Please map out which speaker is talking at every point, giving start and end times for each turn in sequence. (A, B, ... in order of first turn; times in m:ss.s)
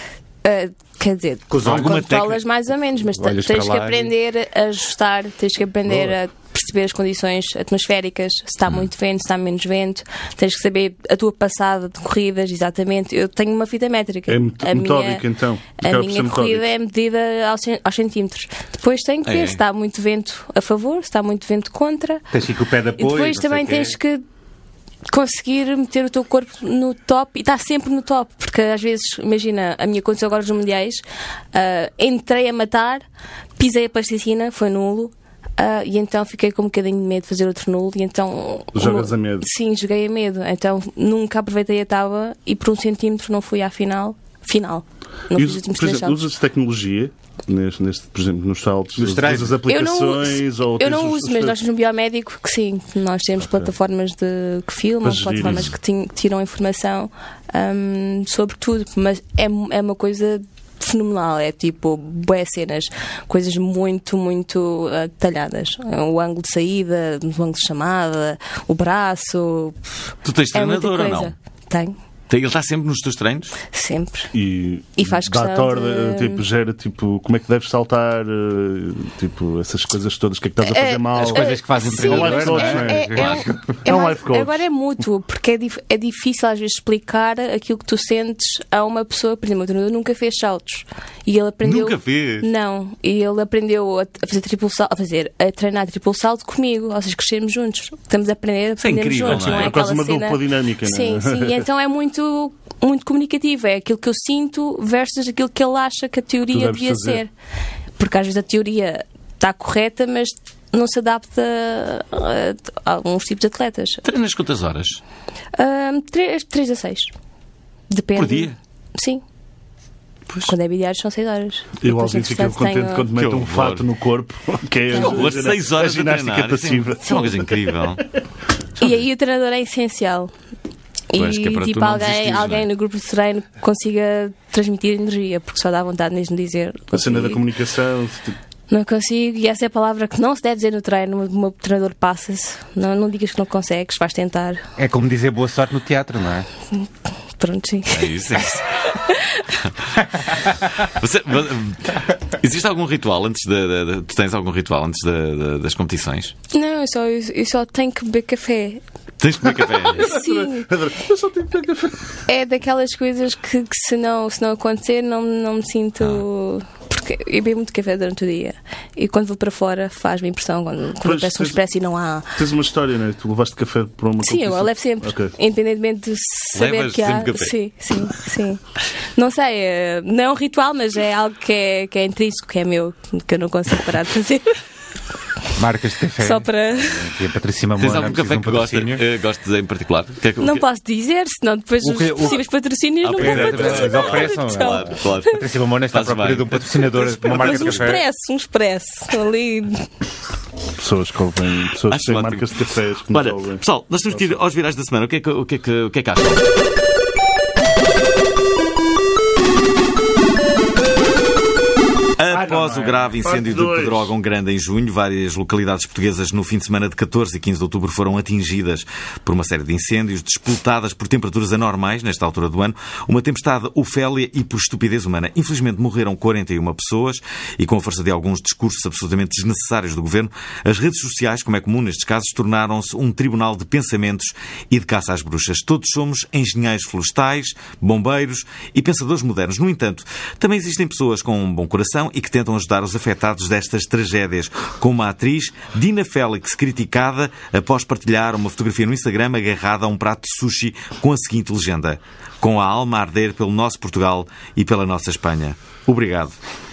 0:00.4-0:15.2 A
0:01.5-0:02.4 B
0:01.6-0:02.1 C
0:03.2-0:04.1 B
0:05.9-0:06.1 D
0:14.3-0:16.7 D
0:15.8-0:22.3 A
0:19.3-0:19.6 C
0:22.3-0:24.0 B
0:23.0-0:24.2 A
0:25.1-0:33.0 A
0:33.6-0:46.2 A
0:38.7-0:39.5 D
0:45.4-0:51.6 D
0:49.0-0:49.6 B
0:49.7-1:09.9 A
0:55.0-0:55.7 D
1:10.2-1:11.3 C
1:10.5-1:12.0 A
1:12.3-1:13.6 C
1:13.7-1:14.3 A
1:14.3-1:23.3 D
1:15.0-1:16.4 A
1:20.6-1:47.3 A
1:21.2-1:23.8 B
1:23.2-1:23.5 C
1:23.8-1:24.6 D
1:31.6-1:32.5 C
1:38.8-1:39.8 C
1:39.3-1:41.6 D
1:46.5-1:47.2 D
1:48.0-1:54.0 A
1:54.0-1:55.0 C
1:55.6-1:57.1 A
1:57.9-1:59.2 A
1:58.2-1:58.6 C
2:00.5-2:03.1 A
2:01.8-2:07.7 D
2:03.2-2:03.9 C
2:04.9-2:05.3 A
2:04.9-2:08.1 C
2:08.8-2:10.3 A
2:11.1-2:17.4 A
2:11.2-2:12.7 C
2:16.9-2:18.4 D
2:18.7-2:24.6 A
2:24.8-2:26.5 B
2:27.4-2:28.1 A
2:27.9-2:29.0 C
2:28.9-2:29.5 A
2:30.2-2:36.3 C
2:36.5-2:38.8 A
2:39.2-2:40.2 C
2:39.9-2:40.7 A
2:39.9-2:42.1 D
2:42.3-2:52.4 A
2:51.0-2:51.6 D
2:52.4-2:55.3 D
2:54.2-2:58.6 A
2:56.6-2:57.5 C
2:59.2-3:04.6 A
3:05.6-3:09.0 B
3:06.2-3:07.1 A
3:07.8-3:10.6 C
3:10.4-3:15.3 A
3:11.8-3:12.4 B
3:13.0-3:18.0 C
3:13.2-3:18.0 B
3:17.2-3:19.9 A
3:20.8-3:24.4 D
3:21.9-3:26.5 C
3:32.2-4:16.4 C
3:32.3-3:33.1 B
3:33.2-3:34.1 D